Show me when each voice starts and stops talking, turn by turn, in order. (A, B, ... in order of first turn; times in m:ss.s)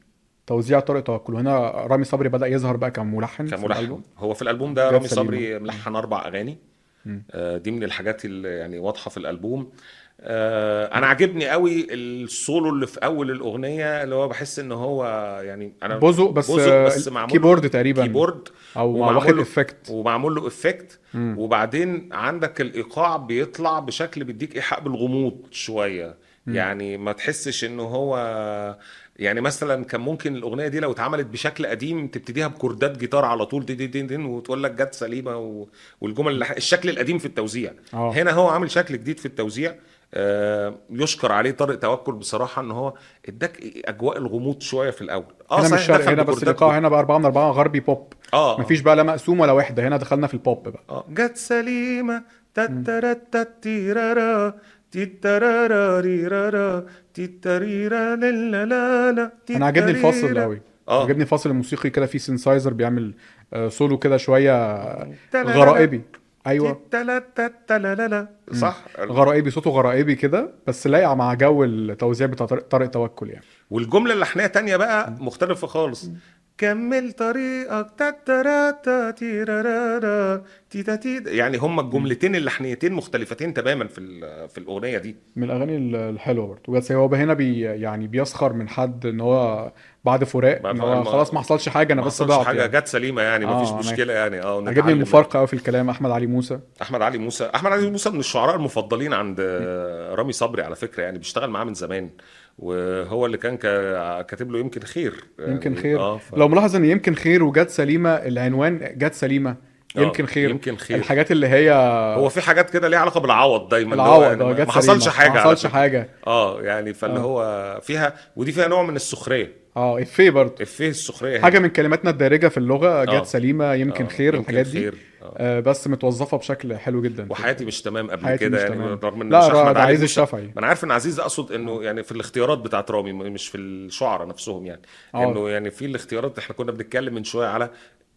0:00.5-0:04.0 A
0:03.5-0:06.6 B
0:04.8-0:05.8 A
0:07.3-0:09.7 B
0:10.2-0:46.8 B
0:15.9-0:18.2 A
0:18.8-0:19.9 A
0:21.1-0:21.4 A
0:45.6-0:50.8 A
0:48.3-0:48.8 B
0:50.9-1:01.1 B
0:59.5-1:06.8 A
1:04.8-1:05.9 B
1:06.6-1:09.1 B
1:08.5-1:13.4 A
1:13.7-1:25.2 B
1:25.4-1:32.7 A
1:30.6-1:35.3 B
1:33.4-1:34.0 A
1:34.7-1:36.6 A
1:36.8-1:46.4 B
1:45.4-1:52.3 A
1:50.0-1:51.1 B
1:52.1-1:59.6 B
1:53.9-1:56.1 A
1:59.8-2:00.6 A
2:00.6-2:01.6 B
2:01.4-2:07.6 A
2:03.9-2:05.4 B
2:07.3-2:17.7 B
2:08.2-2:10.5 A
2:15.2-2:15.4 A